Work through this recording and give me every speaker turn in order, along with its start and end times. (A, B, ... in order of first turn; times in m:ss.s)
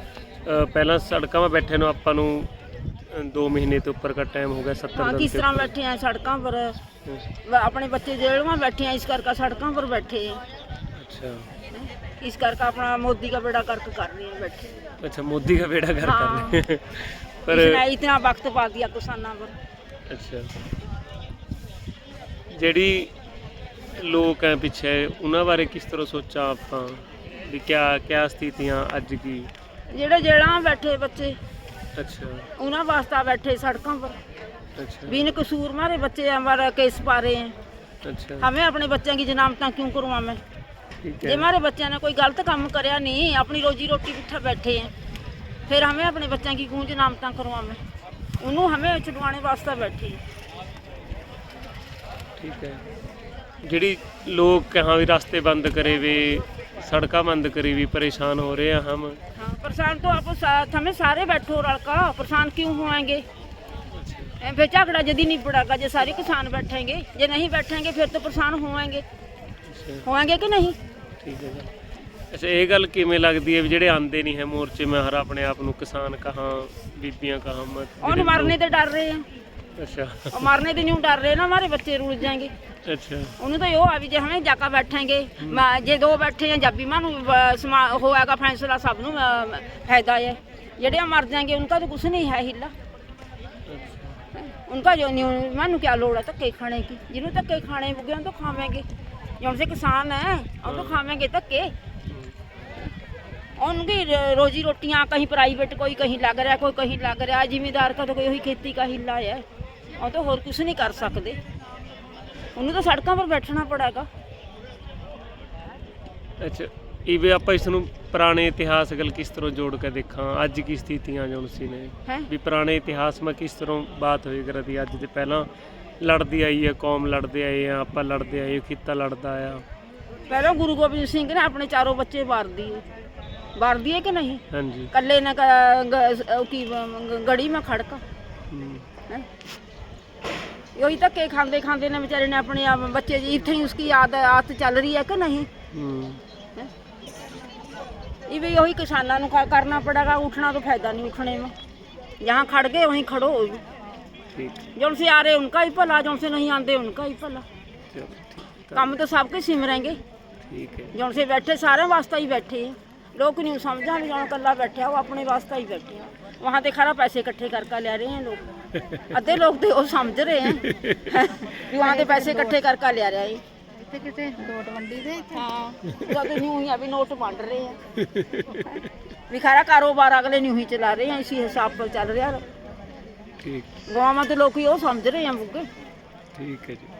0:00.4-0:02.5 A
0:03.0-0:05.7 A
0:04.9-0:06.8 B
0:07.4-0:10.4 B
0:10.9-0:11.5 A
0:11.7-0:14.7 B
0:15.0-0:17.8 A
0:16.0-0:16.6 B
0:17.5-0:19.6 B
0:20.1-0:20.5 A
0:22.5-0:23.1 A
0:23.9-0:29.5 A
0:29.9-0:31.4 B
0:31.9-0:32.5 A
0:32.6-0:34.2 B
0:34.8-0:35.3 A
0:35.1-0:37.5 B
0:38.0-0:38.4 A
0:38.4-0:40.4 B
0:41.0-0:41.4 A
0:41.2-0:44.9 B
0:45.7-0:47.8 B
0:48.4-0:50.2 B
0:52.4-0:52.8 A
0:53.6-0:59.2 A
0:59.3-1:03.2 B
1:03.9-1:04.4 A
1:04.4-1:09.0 B
1:09.7-1:10.0 A
1:10.0-1:10.8 B
1:11.2-1:11.7 A
1:12.3-1:18.6 A
1:18.0-1:19.2 B
1:19.8-1:20.4 A
1:20.3-1:22.5 B
1:22.8-1:23.3 A
1:23.4-1:32.7 B
1:33.7-1:34.2 A
1:34.3-1:38.8 B
1:39.4-1:41.7 B
1:40.6-1:41.0 A
1:42.1-1:42.3 A
1:43.6-1:49.4 B
1:50.0-1:51.4 B
1:52.6-1:54.1 B
1:56.4-2:05.5 A
2:06.0-2:09.6 A
2:10.3-2:12.8 B
2:13.5-2:18.0 B
2:14.5-2:14.9 A
2:18.5-2:18.8 A
2:20.7-2:25.5 B
2:25.7-2:26.2 A
2:28.3-2:31.5 B
2:32.2-2:33.6 B
2:34.4-2:34.6 A
2:34.8-2:37.4 B
2:37.9-2:39.0 A
2:38.7-2:40.0 B
2:40.5-2:40.9 A
2:40.9-2:48.5 B
2:49.1-2:53.4 B
2:50.6-2:51.0 A
2:51.8-2:52.6 C
2:53.8-2:55.8 C
2:55.8-2:56.1 A
2:55.9-2:57.8 B
2:58.0-2:58.8 A
2:59.3-3:02.4 B
3:03.4-3:03.7 A
3:03.9-3:05.7 B
3:06.3-3:06.9 A